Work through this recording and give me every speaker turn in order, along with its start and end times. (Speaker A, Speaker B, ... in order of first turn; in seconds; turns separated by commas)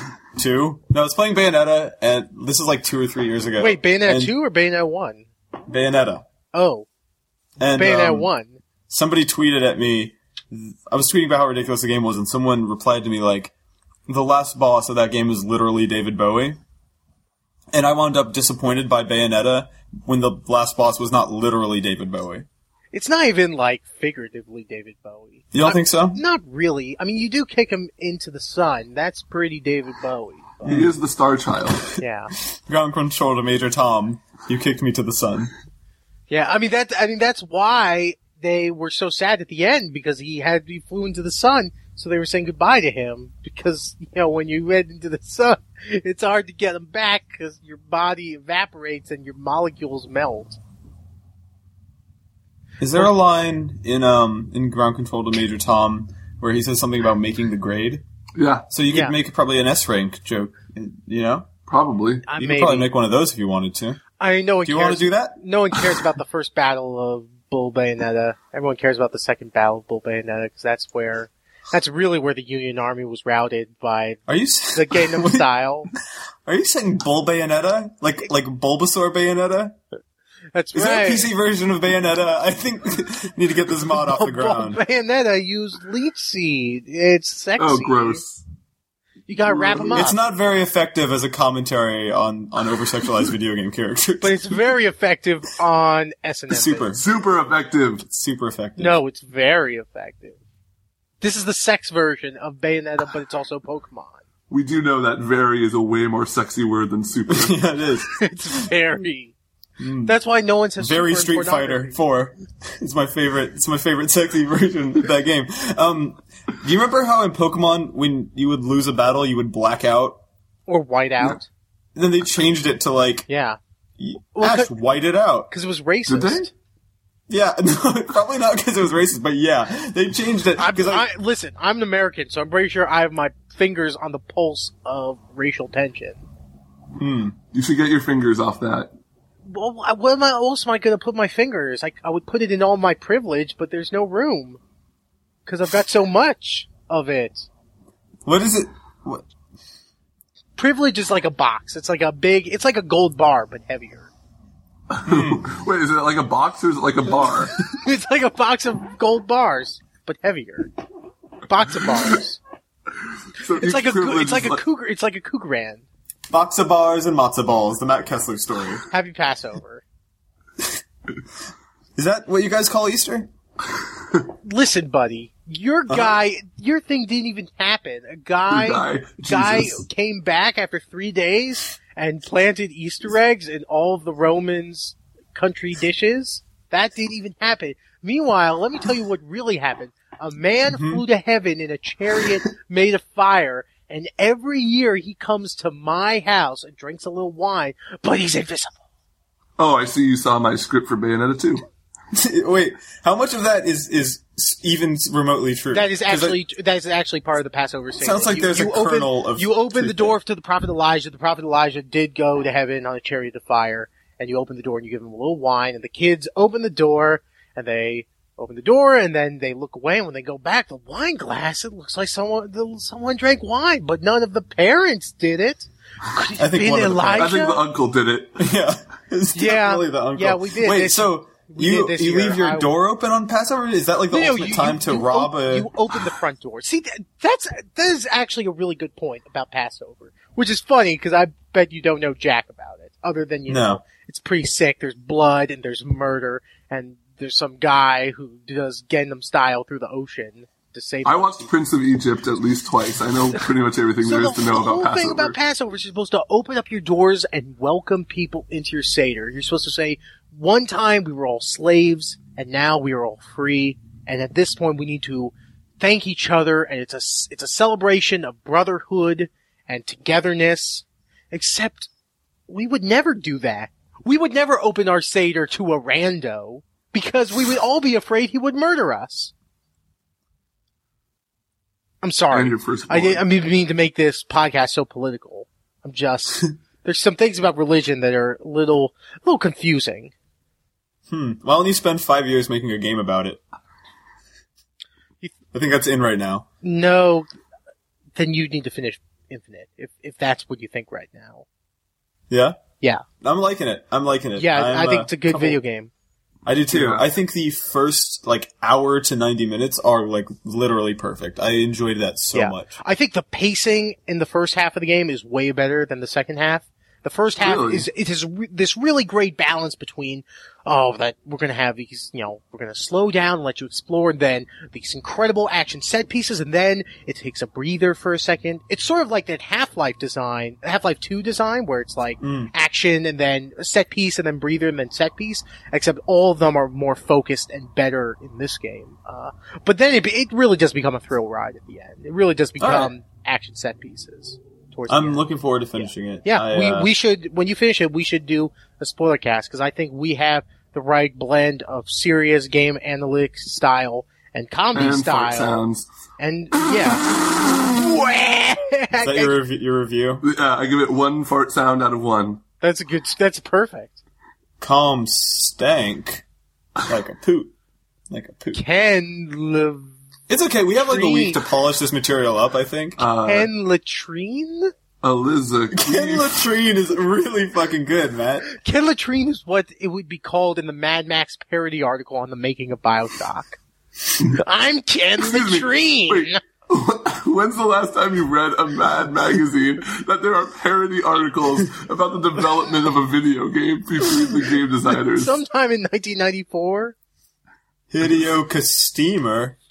Speaker A: 0.3-4.3, Speaker B: 3.6-5.3, Speaker A: 5.7-6.2, Speaker B: 6.5-6.9, Speaker A: 7.6-8.3, Speaker B: 7.8-8.6, Speaker A: 8.9-13.5, Speaker A: 14.1-16.6, Speaker A: 17.7-22.4, Speaker B: 22.9-30.6, Speaker A: 25.5-26.2, Speaker A: 30.6-30.9, Speaker C: 30.6-31.8, Speaker B: 32.0-32.3, Speaker A: 32.6-35.5, Speaker B: 36.3-50.6, Speaker A: 52.8-58.0, Speaker C: 58.3-58.7, Speaker A: 58.7-61.5, Speaker C: 61.7-62.3, Speaker B: 62.2-62.9, Speaker A: 62.4-64.0, Speaker B: 64.2-75.9, Speaker A: 64.6-65.4, Speaker A: 74.3-75.4, Speaker A: 76.5-79.8, Speaker B: 80.5-81.3, Speaker A: 80.7-84.8, Speaker B: 84.0-88.2, Speaker C: 87.6-88.4, Speaker B: 89.3-90.2, Speaker C: 89.4-90.1, Speaker A: 89.9-94.5, Speaker B: 94.2-96.9, Speaker A: 96.5-97.0, Speaker C: 97.0-98.0, Speaker A: 98.0-99.0, Speaker B: 98.8-100.4, Speaker B: 101.2-104.2, Speaker C: 104.5-107.6, Speaker A: 107.3-108.1, Speaker B: 108.1-109.3, Speaker A: 109.8-110.1, Speaker B: 110.0-112.0, Speaker A: 110.8-120.2, Speaker B: 120.7-121.5, Speaker A: 121.9-123.3, Speaker B: 123.3-123.6, Speaker A: 124.0-125.5, Speaker B: 124.3-124.7, Speaker B: 125.5-126.5, Speaker C: 126.0-126.5, Speaker A: 127.3-131.1, Speaker B: 130.6-136.2, Speaker A: 137.0-137.3, Speaker C: 137.5-138.9, Speaker B: 139.4-144.6, Speaker B: 145.4-147.5, Speaker A: 148.2-149.2, Speaker B: 150.6-154.1, Speaker C: 154.9-157.5, Speaker A: 155.1-155.4, Speaker B: 157.6-160.7, Speaker B: 161.5-162.4, Speaker C: 163.4-164.6, Speaker B: 163.5-165.8, Speaker A: 166.3-168.8, Speaker B: 168.9-169.8, Speaker A: 171.9-173.3, Speaker B: 174.4-198.7, Speaker A: 175.9-176.2, Speaker C: 178.5-179.8, Speaker A: 190.7-191.0, Speaker C: 199.6-201.6, Speaker A: 202.1-206.4, Speaker B: 205.7-227.6, Speaker A: 208.0-210.1, Speaker A: 226.4-227.3, Speaker C: 227.2-228.5, Speaker A: 228.4-235.7, Speaker B: 229.3-232.7, Speaker B: 234.1-251.5, Speaker A: 243.5-243.8, Speaker C: 251.0-255.4, Speaker B: 254.0-271.9, Speaker B: 272.5-279.3, Speaker B: 282.0-290.1, Speaker C: 282.3-283.2, Speaker A: 291.1-293.4, Speaker A: 295.5-296.4, Speaker B: 296.6-297.3, Speaker B: 298.1-301.4, Speaker A: 302.3-302.6, Speaker A: 303.2-305.6, Speaker B: 304.4-305.9, Speaker A: 306.4-312.7, Speaker C: 306.7-307.1, Speaker B: 312.3-345.2, Speaker C: 317.4-317.9, Speaker A: 332.2-332.5, Speaker A: 342.6-342.9, Speaker A: 344.9-346.9, Speaker B: 345.8-355.6, Speaker C: 354.7-355.9, Speaker B: 356.2-359.3, Speaker A: 359.0-360.2, Speaker C: 360.2-362.4, Speaker B: 362.6-364.0, Speaker A: 364.6-366.2, Speaker A: 366.8-367.5, Speaker A: 368.1-368.6, Speaker B: 368.5-369.9, Speaker A: 370.3-373.0, Speaker B: 370.8-371.4, Speaker C: 373.0-373.5, Speaker B: 373.2-374.7, Speaker C: 375.0-376.4, Speaker A: 375.7-378.5, Speaker B: 378.5-383.6, Speaker B: 384.1-386.4, Speaker C: 385.2-395.4, Speaker B: 395.1-396.9, Speaker A: 397.9-399.6